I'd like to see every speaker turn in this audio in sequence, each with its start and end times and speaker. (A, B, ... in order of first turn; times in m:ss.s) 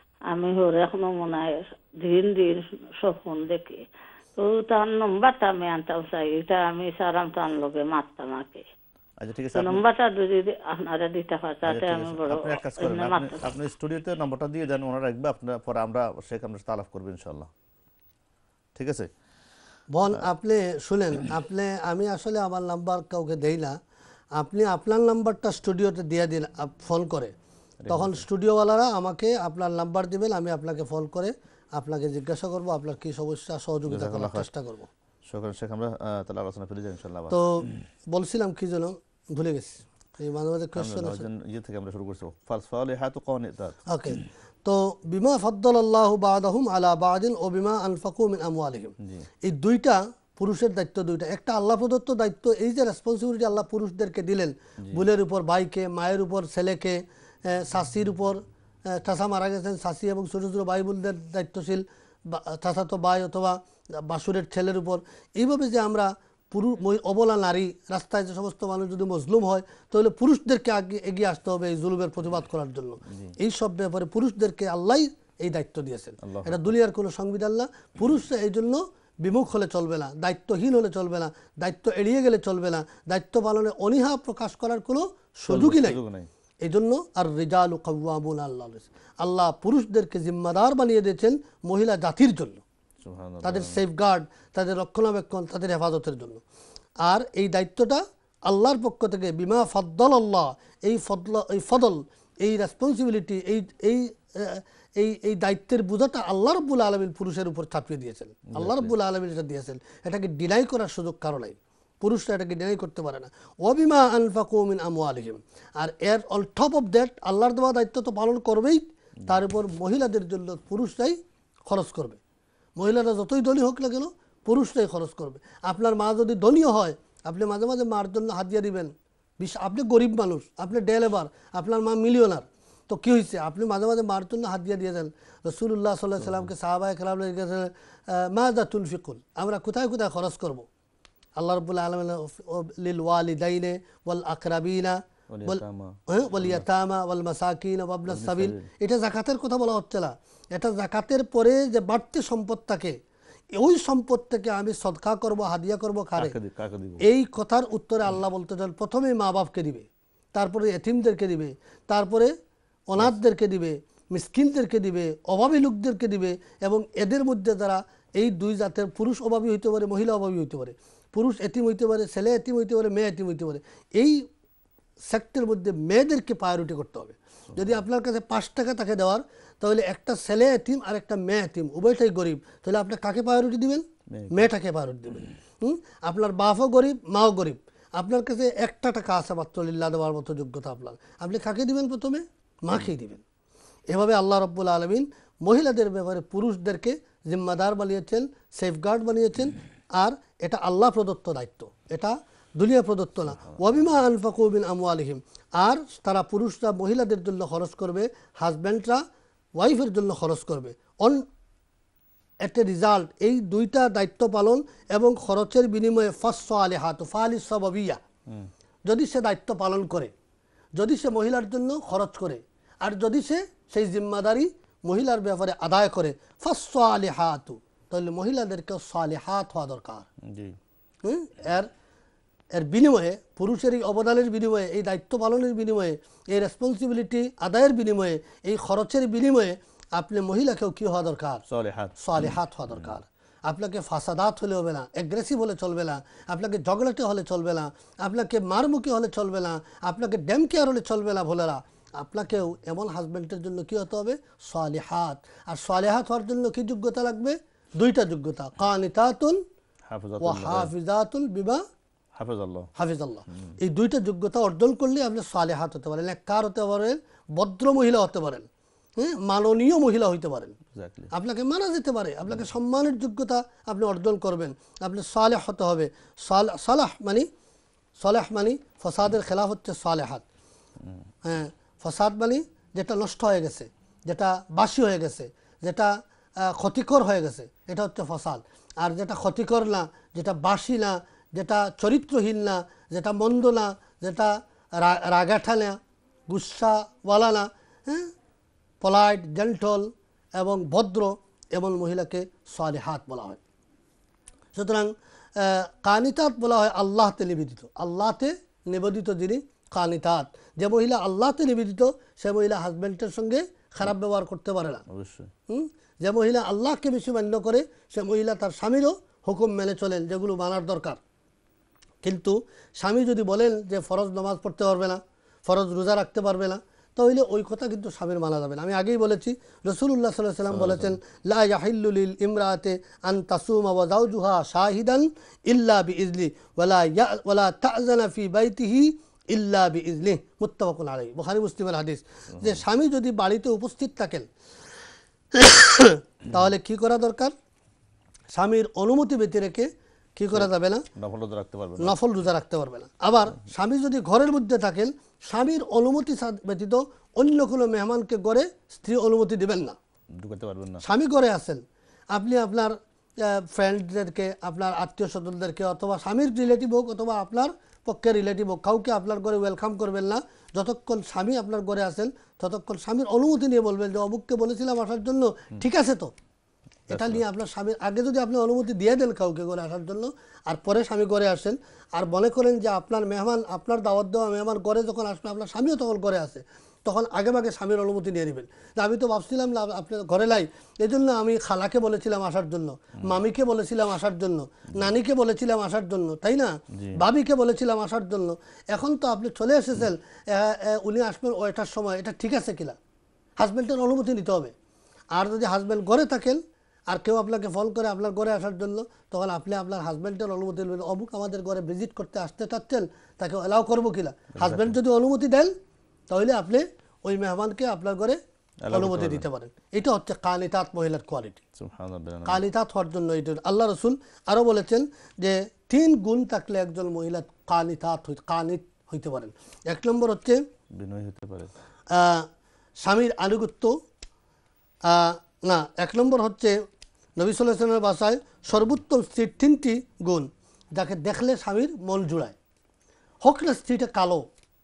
0:00.3-0:03.8 A
0:04.4-0:08.7 A
0:09.2-0:09.8 B
0:09.5-0:13.4 A
0:11.6-0:17.5 B
0:18.8-0:19.1 B
0:19.9-0:23.8 C
0:24.4-0:27.3 C
0:27.8-0:28.2 B
0:27.9-0:34.9 C
0:33.9-0:34.5 B
0:35.3-0:37.4 B
0:37.3-0:41.2 C
0:40.8-0:43.8 B
0:43.9-1:26.0 C
0:49.0-0:49.3 B
0:54.8-0:55.0 B
1:13.1-1:13.3 B
1:16.2-1:16.7 B
1:25.5-1:26.3 B
1:26.6-1:32.6 C
1:33.0-1:33.8 B
1:33.4-1:36.4 C
1:37.0-2:02.2 C
1:48.5-1:48.9 B
2:02.8-2:20.7 C
2:16.2-2:16.5 B
2:21.4-2:33.0 C
2:25.3-2:26.6 B
2:28.1-2:28.7 B
2:33.5-2:36.3 C
2:36.2-2:37.0 B
2:37.0-2:42.3 C
2:42.9-2:54.2 C
2:55.1-3:13.2 C
2:57.5-2:57.8 B
3:04.1-3:04.5 B
3:13.9-3:29.0 C
3:29.6-3:31.2 C
3:32.4-3:38.0 C
3:38.9-3:40.1 C
3:40.8-3:50.1 C
3:50.2-3:50.6 B
3:51.0-3:51.7 C
3:52.5-4:01.4 C
4:01.5-4:02.9 B
4:02.0-4:19.4 C
4:19.9-4:20.7 B
4:20.2-4:21.6 C
4:22.1-4:22.7 B
4:22.8-4:30.6 C
4:23.3-4:23.6 B
4:30.7-4:31.1 B
4:31.1-4:37.3 C
4:38.0-4:40.2 C
4:41.2-4:58.1 C
4:58.8-5:03.4 C
5:04.5-5:14.8 C
5:14.9-5:15.3 B
5:15.5-5:21.0 C
5:22.0-5:44.3 C
5:30.5-5:31.0 B
5:45.3-5:47.3 C
5:48.3-5:50.8 C
5:50.3-5:52.0 B
5:51.8-5:59.8 C
6:00.1-6:00.8 B
6:00.8-6:16.1 C
6:16.9-6:17.2 B
6:16.9-6:42.8 C
6:36.7-6:37.0 B
6:43.4-6:44.5 C
6:45.1-6:55.5 C
6:54.3-6:54.8 B
6:56.1-7:01.4 C
6:58.6-6:59.2 B
7:01.6-7:02.4 B
7:02.3-7:10.4 C
7:10.8-7:11.5 B
7:11.9-7:12.3 C
7:12.8-7:13.7 C
7:14.9-7:16.6 C
7:17.2-7:22.4 C
7:23.2-7:24.3 C